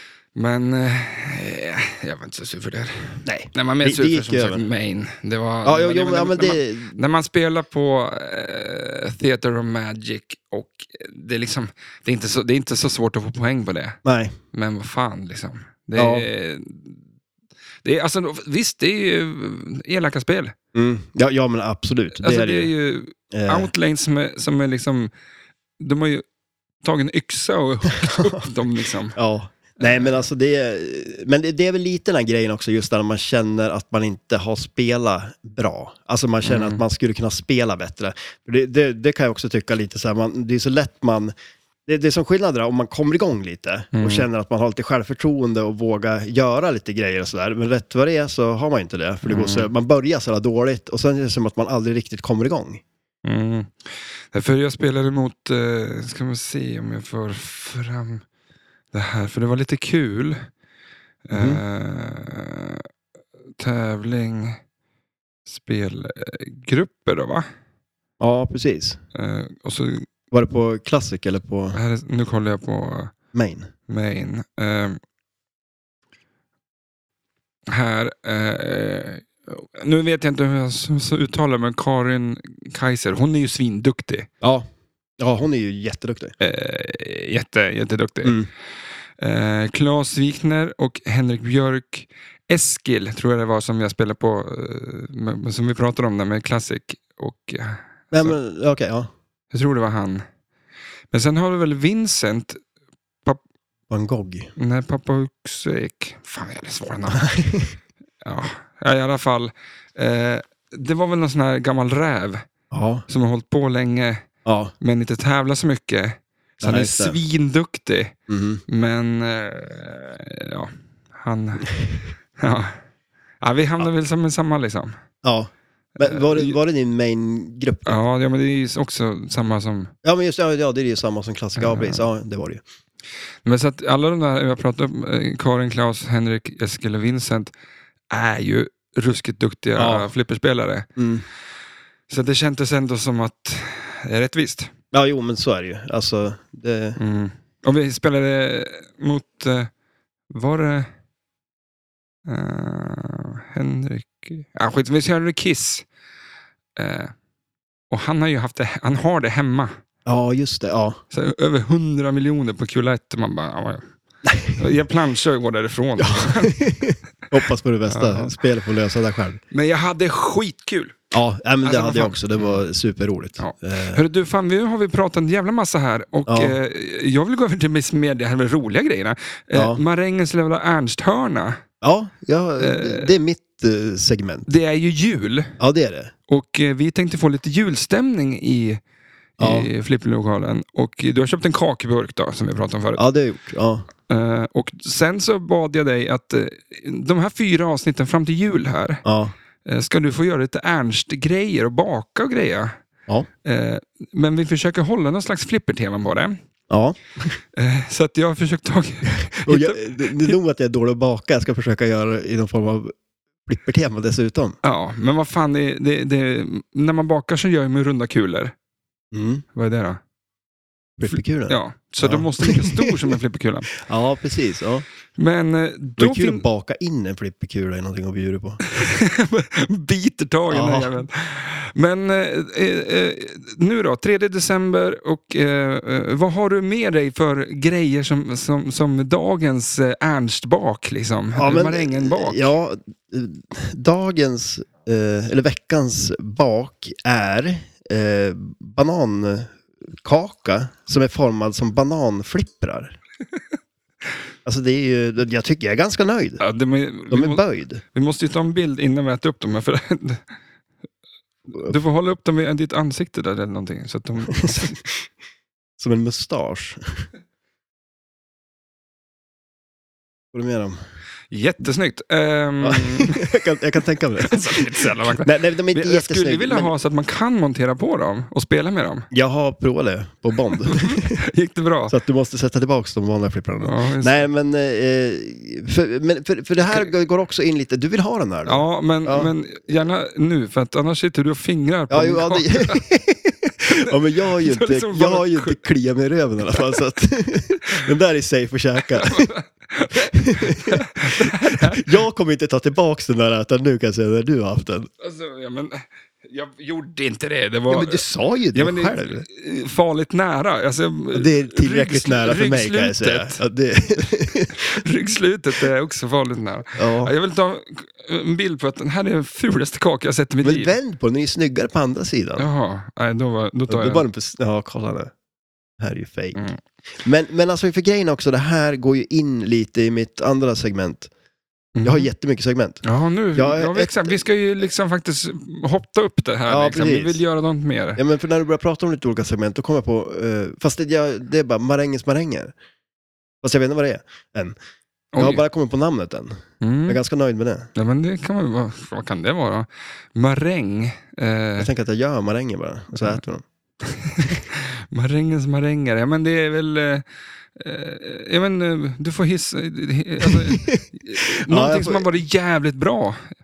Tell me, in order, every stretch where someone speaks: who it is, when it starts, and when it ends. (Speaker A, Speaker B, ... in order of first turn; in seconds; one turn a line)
Speaker A: 0.3-14.0
Speaker B: 3.2-4.6
Speaker B: 5.6-7.0
Speaker B: 14.0-14.3
Speaker A: 14.5-17.0
Speaker B: 15.9-16.3
Speaker A: 17.8-20.5
Speaker B: 20.7-22.7
Speaker A: 22.1-25.1
Speaker B: 23.3-23.7
Speaker A: 25.8-26.2
Speaker A: 26.8-29.2
Speaker B: 28.0-28.4
Speaker B: 29.1-41.3
Speaker A: 29.8-30.2
Speaker A: 36.4-36.8
Speaker B: 41.9-52.8
Speaker A: 43.9-44.3
Speaker A: 49.2-49.7
Speaker A: 53.2-58.2
Speaker A: 58.9-60.5
Speaker A: 61.2-62.9
Speaker B: 61.3-61.6
Speaker A: 63.6-64.6
Speaker A: 65.5-67.4
Speaker B: 68.2-69.0
Speaker A: 69.1-70.1
Speaker B: 70.3-71.8
Speaker A: 71.7-73.1
Speaker B: 73.3-73.7
Speaker A: 73.9-75.0
Speaker A: 77.7-84.3
Speaker B: 84.4-84.7
Speaker B: 85.2-86.3
Speaker A: 86.4-88.4
Speaker B: 88.2-88.5
Speaker A: 89.2-98.3
Speaker B: 98.1-99.1
Speaker A: 99.5-100.2
Speaker A: 101.1-102.6
Speaker B: 103.9-104.5
Speaker A: 104.6-107.3
Speaker B: 107.1-107.7
Speaker A: 108.2-112.5
Speaker B: 112.7-113.0
Speaker A: 113.1-114.3
Speaker B: 114.4-114.7
Speaker A: 114.8-118.1
Speaker B: 116.6-117.2
Speaker B: 118.3-118.6
Speaker A: 118.7-121.7
Speaker A: 122.4-122.8
Speaker A: 123.4-125.0
Speaker B: 125.2-127.9
Speaker A: 126.0-126.5
Speaker A: 127.8-129.9
Speaker B: 130.0-132.6
Speaker A: 131.6-132.1
Speaker A: 133.4-137.5
Speaker A: 138.1-140.9
Speaker B: 139.8-140.1
Speaker B: 141.0-141.2
Speaker A: 142.1-144.7
Speaker B: 144.9-147.0
Speaker A: 147.0-149.7
Speaker A: 150.3-150.9
Speaker A: 152.2-155.8
Speaker A: 156.8-157.1
Speaker A: 157.9-159.8
Speaker B: 160.1-161.0
Speaker A: 161.1-163.8
Speaker B: 164.2-164.5
Speaker A: 164.5-166.6
Speaker B: 166.0-169.4
Speaker A: 167.9-168.3
Speaker A: 169.5-171.0
Speaker B: 171.1-174.0
Speaker A: 171.6-172.6
Speaker A: 173.4-181.6
Speaker B: 176.3-176.6
Speaker B: 179.5-179.8
Speaker B: 181.8-184.5
Speaker A: 182.6-183.1
Speaker A: 184.5-185.6
Speaker B: 185.6-186.1
Speaker A: 186.3-188.8
Speaker A: 189.4-193.0
Speaker B: 189.4-189.7
Speaker B: 192.9-193.9
Speaker A: 194.1-199.0
Speaker B: 199.0-199.3
Speaker A: 199.6-202.7
Speaker A: 203.4-206.4
Speaker B: 206.7-207.4
Speaker A: 207.5-210.4
Speaker B: 209.4-212.9
Speaker B: 213.4-214.6
Speaker A: 214.6-218.5
Speaker B: 219.1-219.4
Speaker A: 219.5-220.0
Speaker B: 221.0-223.0
Speaker A: 221.1-223.7
Speaker B: 223.8-224.8
Speaker A: 225.2-226.4
Speaker B: 226.0-228.6
Speaker A: 228.6-242.5
Speaker B: 230.5-230.9
Speaker B: 241.3-252.9
Speaker B: 254.4-256.4
Speaker A: 256.4-260.2
Speaker B: 257.1-257.8
Speaker A: 261.5-264.7
Speaker B: 264.3-265.0
Speaker B: 265.8-267.0
Speaker B: 270.3-270.8
Speaker A: 271.3-273.3
Speaker B: 272.6-276.7
Speaker A: 274.2-279.1
Speaker B: 279.1-281.2
Speaker A: 280.6-281.9
Speaker B: 281.9-289.3
Speaker A: 283.6-284.3
Speaker A: 288.4-292.8
Speaker B: 291.9-299.3
Speaker A: 293.7-295.6
Speaker A: 298.9-301.9
Speaker B: 300.1-304.9
Speaker A: 305.0-308.0
Speaker B: 307.7-309.2
Speaker A: 308.5-313.4
Speaker B: 311.1-314.8
Speaker A: 314.6-320.7
Speaker B: 316.8-317.1
Speaker B: 320.4-322.4
Speaker A: 322.4-324.0
Speaker B: 323.7-325.1
Speaker B: 325.8-326.4
Speaker B: 327.0-331.1
Speaker A: 331.8-332.1
Speaker B: 331.8-332.8
Speaker A: 332.8-338.0
Speaker B: 333.3-334.2
Speaker B: 336.5-337.2
Speaker B: 337.9-342.5
Speaker B: 343.4-344.6
Speaker A: 345.1-345.4
Speaker B: 345.2-347.7
Speaker A: 346.6-347.0
Speaker A: 347.7-351.7
Speaker B: 351.6-353.4
Speaker A: 353.8-357.0
Speaker A: 357.6-363.3
Speaker B: 360.2-362.1